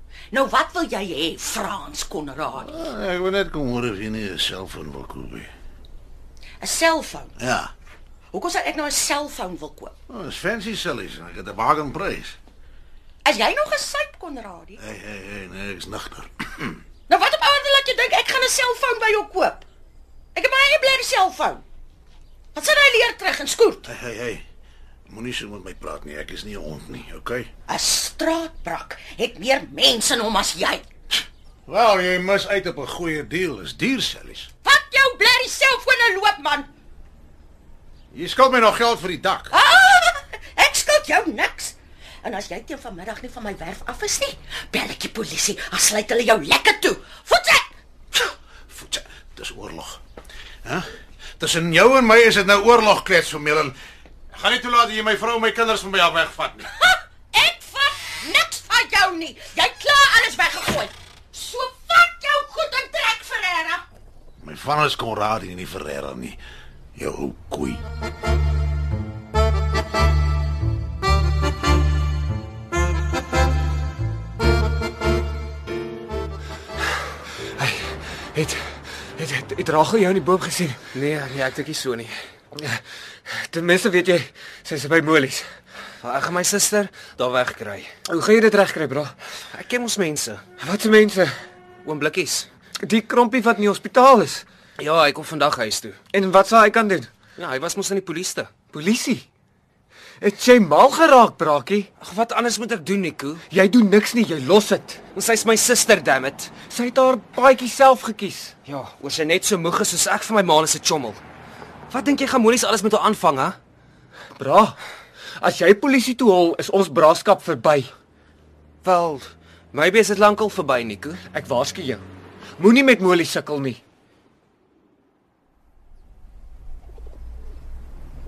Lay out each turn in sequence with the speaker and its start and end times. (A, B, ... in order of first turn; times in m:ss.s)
0:00.3-0:02.7 A
0:02.6-0:05.5 B
0:06.6-0:07.3 A
0:07.4-0:07.7 B
0:08.3-0:09.9 A
0:10.1-0:12.4 B
0:13.2-0:14.8 A
0:14.8-0:16.8 B
0:17.1-0:19.6 A
0:20.4-0:21.6 A
0:22.5-0:23.9 A
0:23.8-0:24.4 B
0:25.1-0:27.5 B
0:27.7-0:30.8 A
0:31.7-0:34.5 B
0:34.6-0:36.7 A
0:38.1-0:39.5 B
0:39.5-0:47.7 A
0:48.2-0:50.0 B
0:51.4-0:53.7 B
0:54.3-0:56.8 B
0:57.3-1:03.8 A
1:04.4-1:06.4 B
1:07.0-1:07.8 B
1:17.6-1:20.9 C
1:20.9-1:22.2 D
1:22.6-1:25.4 C
1:26.0-1:27.9 D
1:28.1-1:29.1 C
1:29.5-1:30.4 D
1:30.6-1:31.3 C
1:31.8-1:32.5 D
1:32.8-1:34.4 C
1:34.8-1:36.0 D
1:36.1-1:37.1 C
1:37.4-1:38.5 D
1:38.7-1:39.3 C
1:40.2-1:41.9 C
1:42.0-1:43.4 D
1:43.5-1:45.0 C
1:45.1-1:46.6 D
1:46.7-1:48.6 C
1:48.7-1:51.2 D
1:51.9-1:53.6 D
1:54.4-1:54.8 C
1:55.4-1:57.9 C
1:58.8-2:01.2 D
2:01.3-2:02.0 C
2:02.6-2:03.8 C